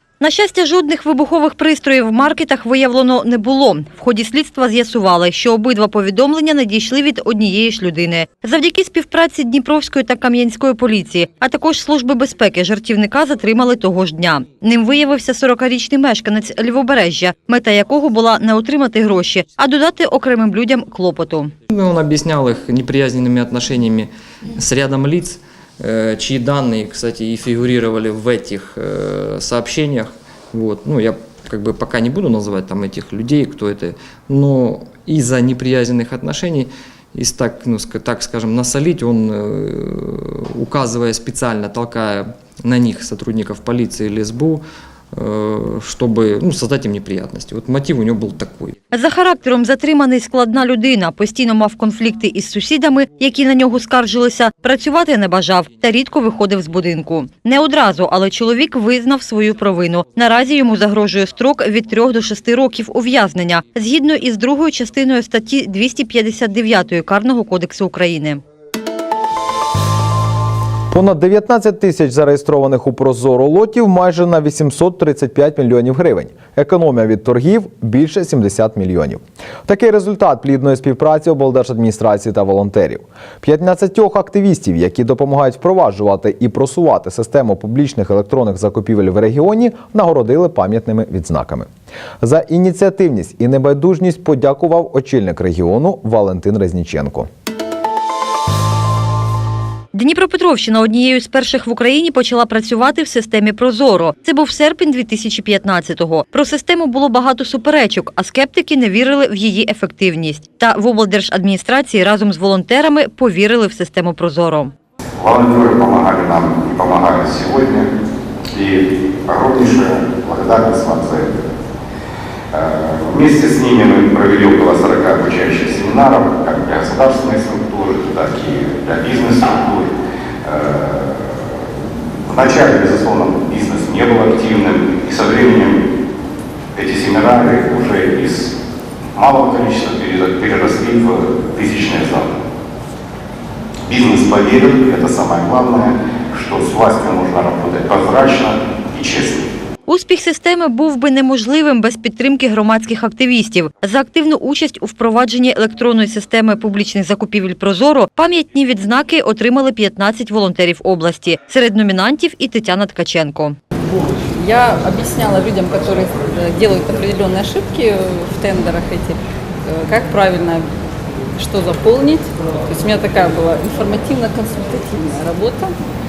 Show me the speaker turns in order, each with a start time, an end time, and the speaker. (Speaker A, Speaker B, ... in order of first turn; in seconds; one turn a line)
Speaker A: 0.2-21.5
Speaker B: 21.7-48.7
Speaker A: 48.9-68.4
Speaker C: 70.9-91.7
Speaker C: 92.2-97.3
Speaker A: 99.9-114.7
Speaker D: 115.2-117.9
Speaker D: 118.5-121.4
Speaker D: 122.5-129.9
Speaker D: 130.4-131.2
Speaker D: 132.3-135.8
Speaker D: 136.8-138.5
Speaker D: 139.2-142.3
Speaker D: 143.9-149.5
Speaker A: 149.8-163.6
Speaker E: 164.4-170.7
Speaker E: 171.3-175.7